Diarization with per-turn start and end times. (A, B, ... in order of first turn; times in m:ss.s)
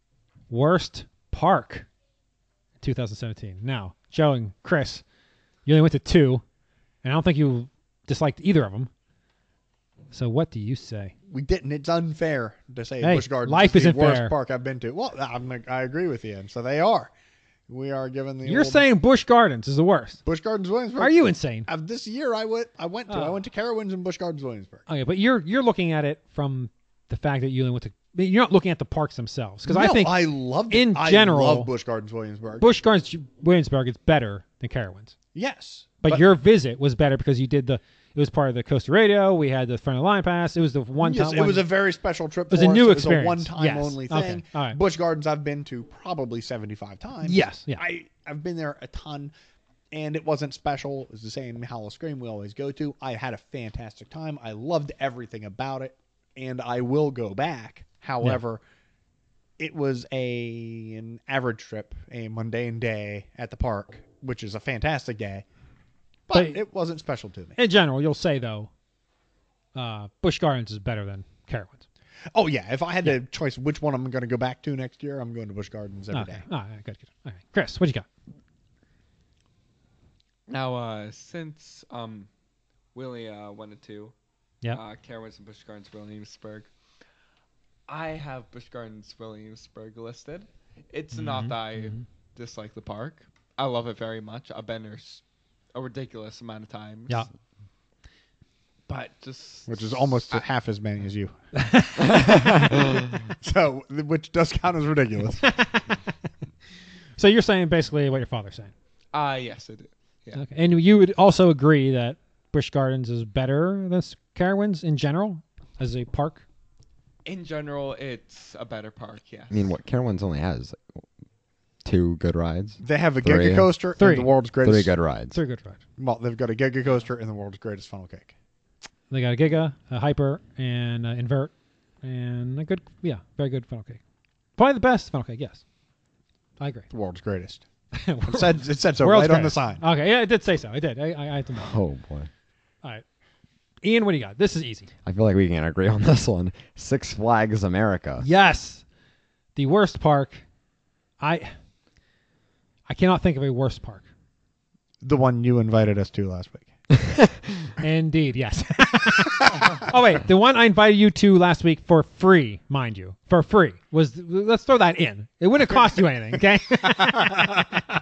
0:00.5-0:01.9 A
0:02.8-0:05.0 A
0:05.7-0:06.4 A
0:07.0-0:08.9 A
0:10.1-0:11.1 A
0:11.3-0:17.1 B
0:13.0-0:14.4 A
0:17.7-0:18.8 B
0:18.4-0:20.2 A
0:20.2-0:24.8 B
0:21.0-0:21.7 A
0:23.1-0:23.4 A
0:24.9-0:31.7 A
0:29.7-0:32.6 B
0:32.6-0:35.1 A
0:35.3-0:36.3 B
0:36.0-0:41.7 A
0:41.0-0:49.3 B
0:42.5-0:44.8 A
0:47.2-0:47.8 A
0:49.9-0:58.6 B
0:59.6-1:05.4 B
1:06.3-1:07.6 B
1:06.3-1:06.6 A
1:07.6-1:08.7 A
1:09.7-1:11.8 A
1:12.3-1:16.4 B
1:16.1-1:18.0 A
1:20.5-1:22.3 C
1:22.9-1:24.1 C
1:24.7-1:26.7 C
1:27.9-1:35.2 C
1:31.1-1:32.0 A
1:35.7-1:37.3 C
1:38.9-1:40.4 C
1:39.7-1:41.3 B
1:41.6-1:42.6 A
1:43.4-1:45.5 B
1:45.4-1:46.0 A
1:47.2-1:48.7 A
1:49.1-1:50.4 C
1:50.3-1:56.4 A
1:57.2-1:59.6 C
1:59.5-2:01.0 D
2:01.8-2:03.7 D
2:02.8-2:04.9 B
2:04.0-2:04.3 A
2:04.6-2:05.4 D
2:05.3-2:05.8 A
2:06.0-2:08.3 B
2:09.1-2:14.0 A
2:14.6-2:15.6 A
2:16.6-2:16.9 A
2:16.9-2:17.6 B
2:17.9-2:21.8 A
2:18.3-2:19.8 B
2:21.6-2:22.3 D
2:23.8-2:24.9 A
2:25.0-2:28.3 D
2:28.2-2:28.8 A
2:29.6-2:30.4 A
2:31.2-2:31.5 A
2:32.9-2:34.0 A
2:35.0-2:36.7 B
2:37.8-2:47.6 A
2:46.8-2:47.6 B